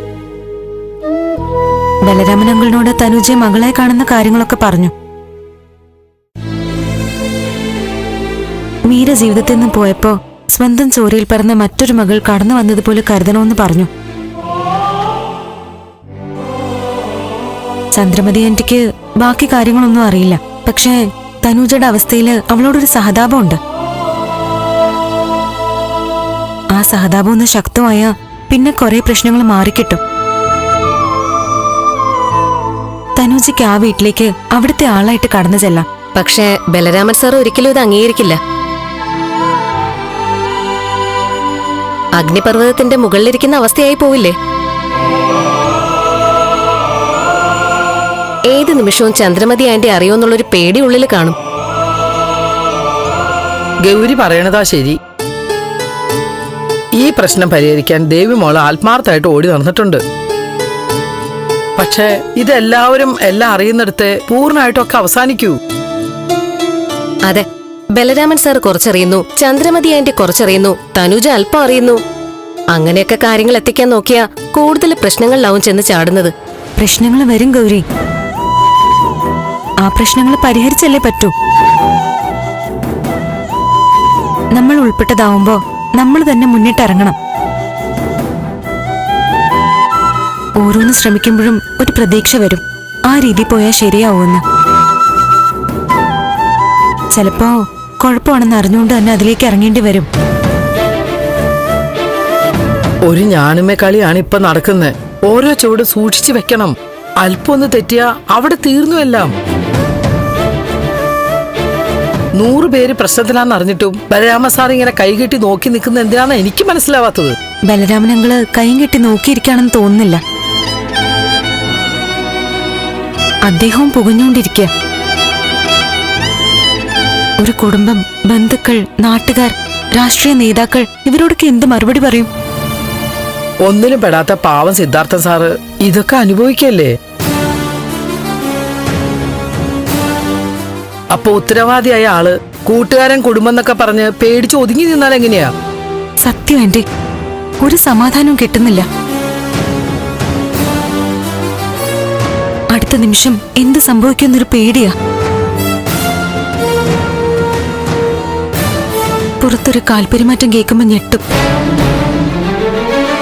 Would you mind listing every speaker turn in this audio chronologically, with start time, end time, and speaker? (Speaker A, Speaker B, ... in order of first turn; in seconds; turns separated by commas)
Speaker A: 2.0-4.9, Speaker A: 8.9-13.9, Speaker A: 17.9-23.6, Speaker A: 26.7-30.0, Speaker A: 33.2-35.9, Speaker B: 36.2-38.4, Speaker B: 42.2-44.3, Speaker B: 48.5-51.4, Speaker C: 53.8-55.0, Speaker C: 56.9-60.0, Speaker C: 61.8-65.6, Speaker B: 67.3-72.0, Speaker B: 72.7-76.3, Speaker A: 76.8-77.8, Speaker A: 79.8-81.3, Speaker A: 84.5-87.2, Speaker A: 90.6-94.4, Speaker A: 97.1-100.1, Speaker C: 103.1-109.3, Speaker C: 112.3-117.3, Speaker A: 117.7-120.2, Speaker A: 123.4-124.7, Speaker A: 127.4-132.3, Speaker C: 133.6-136.9, Speaker C: 141.1-145.5, Speaker A: 146.2-146.8, Speaker A: 147.6-148.9, Speaker A: 152.7-154.9, Speaker A: 159.4-161.2